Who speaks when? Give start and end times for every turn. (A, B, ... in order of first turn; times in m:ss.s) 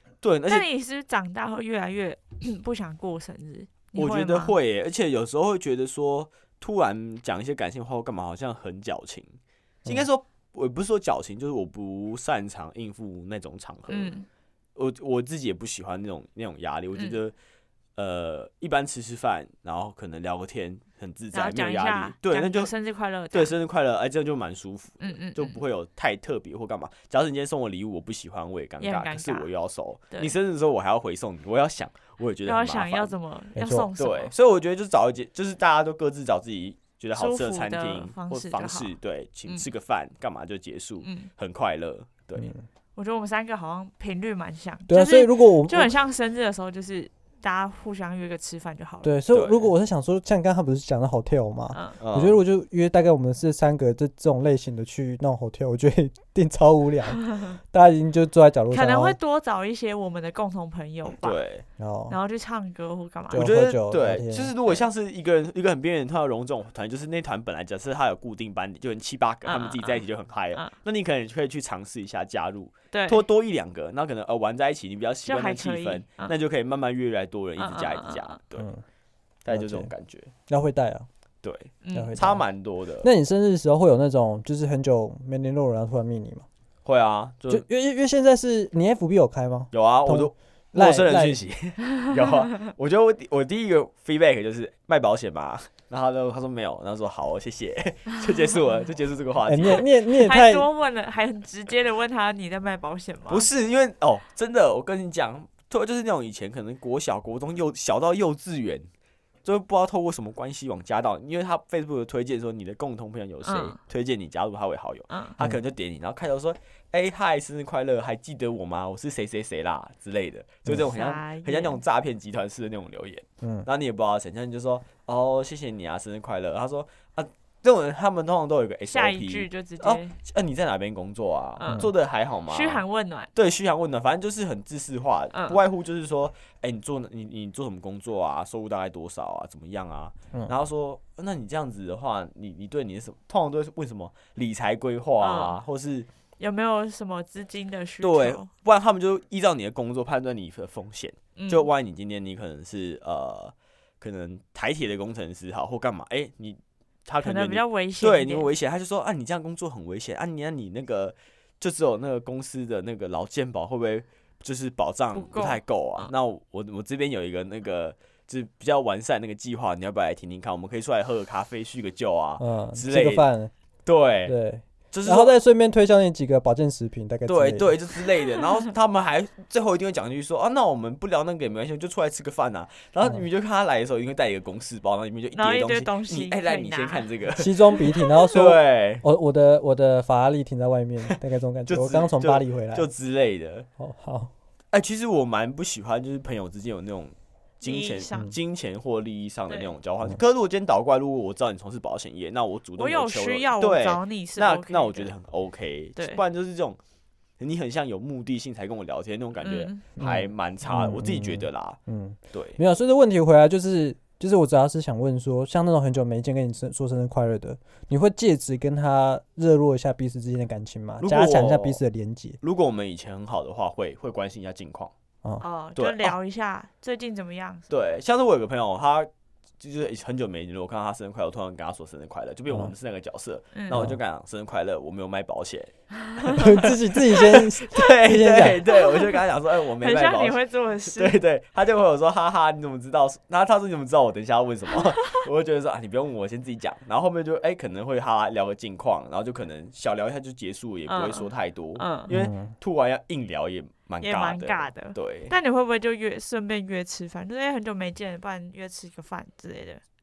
0:00.2-0:00.7 A
0:00.5-0:04.6 B
0:04.0-0:09.3 A
0:09.8-0:14.1 A
0:13.9-0:14.3 B
0:14.8-0:17.3 A
0:18.0-0:22.7 A
0:21.3-0:23.5 B
0:23.3-0:33.1 A
0:25.0-0:25.6 B
0:28.8-0:29.5 B
0:32.4-0:34.3 B
0:33.6-0:33.9 C
0:34.0-0:42.5 A
0:37.2-0:38.9 B
0:41.0-0:41.3 B
0:42.4-0:42.7 C
0:43.0-0:49.1 B
0:44.9-0:45.9 C
0:49.0-0:59.2 C
0:49.3-0:49.7 A
0:52.0-0:52.4 A
0:57.3-0:57.6 B
0:58.7-1:01.4 B
1:01.2-1:01.6 A
1:01.8-1:02.2 C
1:02.1-1:03.5 B
1:03.3-1:04.5 C
1:03.3-1:18.7 A
1:09.4-1:10.0 B
1:12.9-1:13.2 B
1:15.2-1:16.3 B
1:17.6-1:18.4 B
1:18.6-1:18.8 C
1:19.4-1:20.3 A
1:19.5-1:19.9 C
1:20.5-1:21.1 C
1:21.4-1:23.1 A
1:21.8-1:22.2 B
1:21.9-1:22.4 C
1:23.0-1:26.4 C
1:26.8-1:27.6 A
1:27.5-1:31.4 C
1:29.7-1:39.9 A
1:39.4-1:40.7 C
1:39.6-1:43.5 B
1:43.3-1:48.9 A
1:49.4-2:12.8 A
1:53.4-1:53.8 B
1:55.1-1:55.4 B
2:00.8-2:01.8 B
2:03.4-2:03.7 C
2:08.9-2:10.2 B
2:11.6-2:11.9 B
2:12.5-2:13.3 B
2:13.4-2:26.1 A
2:15.3-2:15.6 B
2:25.2-2:25.6 B
2:26.4-2:28.5 B
2:28.0-2:53.3 A
2:31.4-2:31.7 B
2:37.2-2:38.5 B
2:45.1-2:46.1 B
2:52.4-2:53.5 C
2:53.9-2:54.4 A
2:54.3-2:57.7 C
2:54.9-2:55.4 A
2:57.3-3:09.0 A
3:05.4-3:07.1 B
3:07.4-3:12.9 C
3:11.7-3:13.7 A
3:13.8-3:14.3 C
3:14.7-3:26.8 A
3:17.6-3:18.3 B
3:22.8-3:25.1 B
3:27.4-3:31.8 A
3:29.4-3:29.8 B
3:30.0-3:42.4 C
3:32.3-3:32.6 A
3:41.0-3:41.8 A
3:42.4-3:44.9 A
3:45.4-3:47.7 B
3:45.8-3:46.2 A
3:47.7-3:49.1 A
3:49.6-3:55.7 A
3:53.5-3:53.9 B
3:56.2-4:15.3 A
3:56.3-3:58.6 C
3:58.7-3:59.2 B
3:59.8-4:01.2 B
4:10.9-4:12.1 B
4:12.1-4:12.5 C
4:14.0-4:19.8 B